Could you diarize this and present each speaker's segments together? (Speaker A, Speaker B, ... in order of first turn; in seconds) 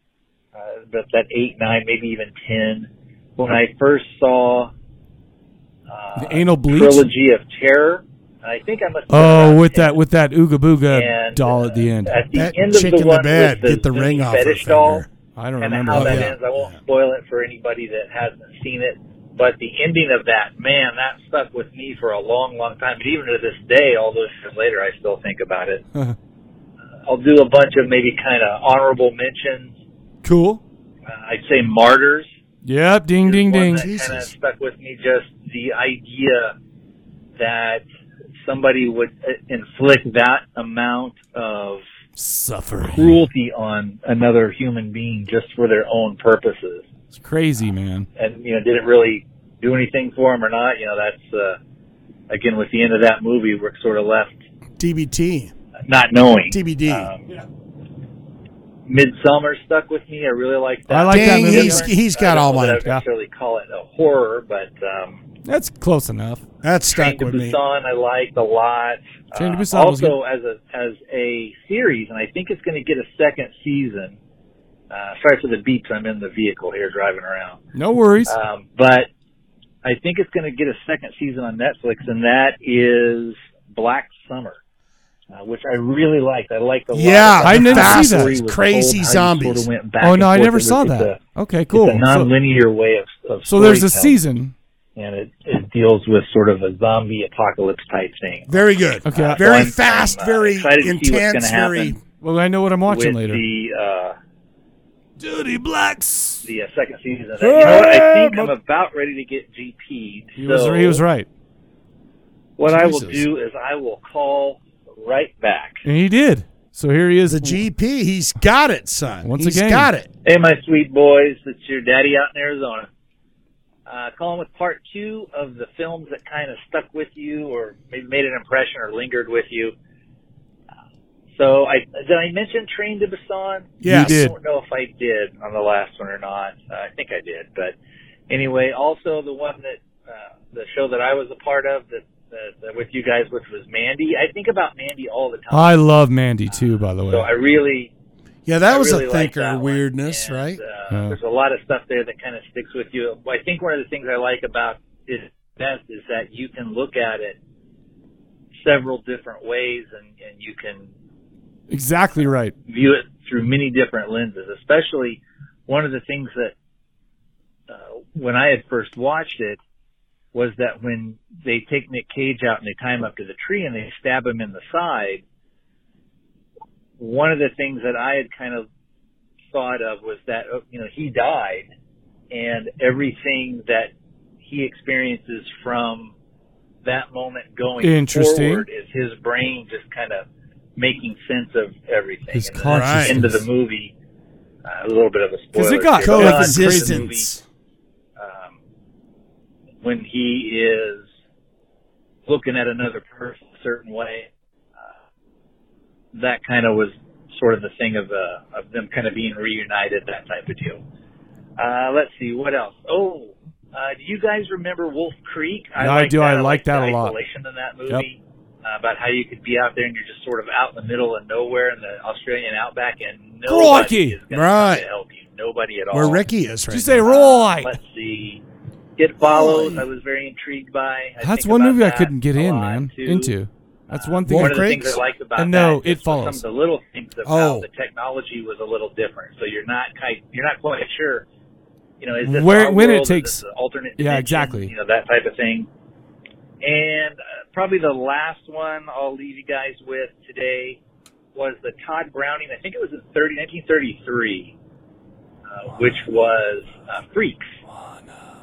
Speaker A: 0.5-4.7, 5.9-10.0, 10.9-15.1, 15.6-25.8, 27.1-29.7, 31.1-32.3, 33.2-36.5, 37.4-37.8, 38.4-41.8, 42.9-46.9, 48.2-51.6, 52.3-54.4, 55.9-57.2, 58.9-65.2, 66.9-74.2, 74.9-77.6, 78.3-79.1, 79.8-84.6, 85.3-91.2, 91.7-94.2, 95.0-102.0, 102.9-104.2, 106.4-111.0, 112.6-115.8, 120.2-122.9, 123.9-129.7, 131.3-137.7, 138.3-145.8, 146.5-147.9, 148.7-157.4, 158.6-160.9, 162.7-166.5, 167.7-169.6, 170.3-175.2, 177.0-178.7, 179.5-181.7, 182.3-183.9, 184.4-186.1, 186.8-190.2, 190.8-193.9, 194.6-197.3, 198.2-198.6, 199.8-201.1, 202.2-204.3, 206.1-210.8, 211.6-226.2, 227.0-228.4, 229.0-233.3, 233.9-241.2, 242.0-245.7, 246.6-250.8, 251.3-254.5, 255.5-257.5
Speaker B: 6.2-7.1, 9.1-12.2, 15.3-16.3, 30.2-30.6, 32.6-33.9, 42.2-43.2, 47.1-48.1, 60.9-61.9, 65.4-66.4, 69.3-70.2, 77.7-78.3, 87.4-88.3, 90.0-92.3, 93.5-94.5, 99.0-99.7, 102.2-103.4, 105.2-106.5, 107.4-108.5, 110.4-111.3, 115.8-117.6, 119.2-119.9, 133.8-134.3, 145.5-147.3, 150.9-151.2, 161.7-162.5, 187.8-188.7, 192.3-193.4, 195.5-197.4, 215.8-217.2, 223.4-224.2, 226.7-227.8, 231.2-234.7, 235.3-236.4, 242.2-243.4, 244.0-244.7
Speaker C: 12.3-15.1, 15.9-16.8, 33.8-34.3, 54.8-55.5, 56.5-57.1, 61.1-62.9, 66.6-67.6, 86.9-89.7, 98.5-102.0, 107.6-108.0, 112.7-113.2, 117.3-120.1, 133.8-134.2, 148.4-150.6, 192.7-193.3, 196.0-197.2, 224.3-224.8, 225.9-227.1, 229.2-229.8, 234.3-235.0, 237.2-237.7